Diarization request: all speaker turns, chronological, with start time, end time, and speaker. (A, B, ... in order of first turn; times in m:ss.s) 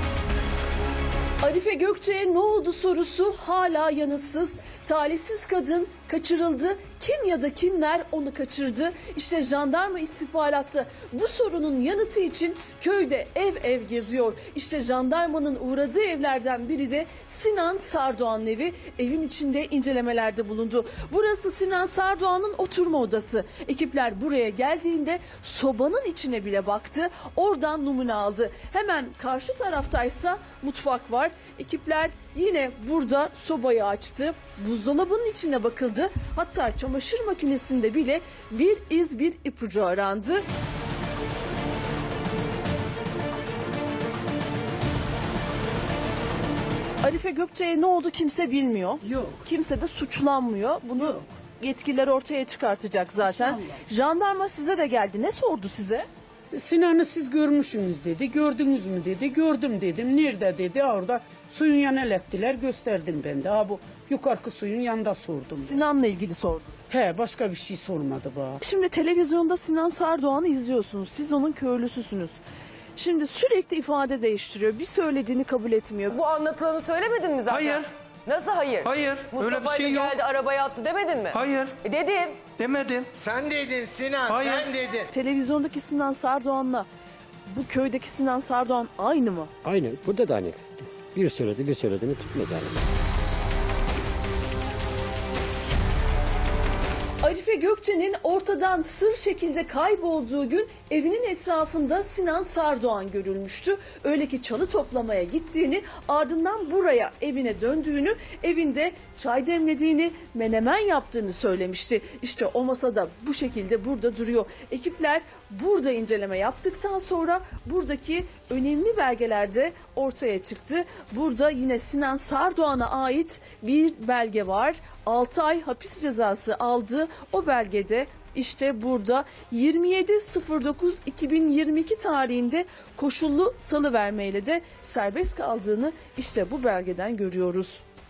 0:01.4-0:40.4 A
0:47.0-0:56.0 A
0:56.5-1:05.8 B
1:05.6-1:06.7 A
1:06.9-1:08.6 B
1:08.6-1:12.4 A
1:13.0-1:16.2 A
1:16.1-1:22.4 C
1:17.5-1:17.9 D
1:18.8-1:20.1 D
1:21.3-1:21.8 D
1:22.6-1:23.1 D
1:23.1-1:25.1 E
1:24.2-1:24.7 D
1:25.1-1:26.9 A
1:27.5-1:29.5 A
1:29.6-1:32.8 F
1:37.2-2:17.8 A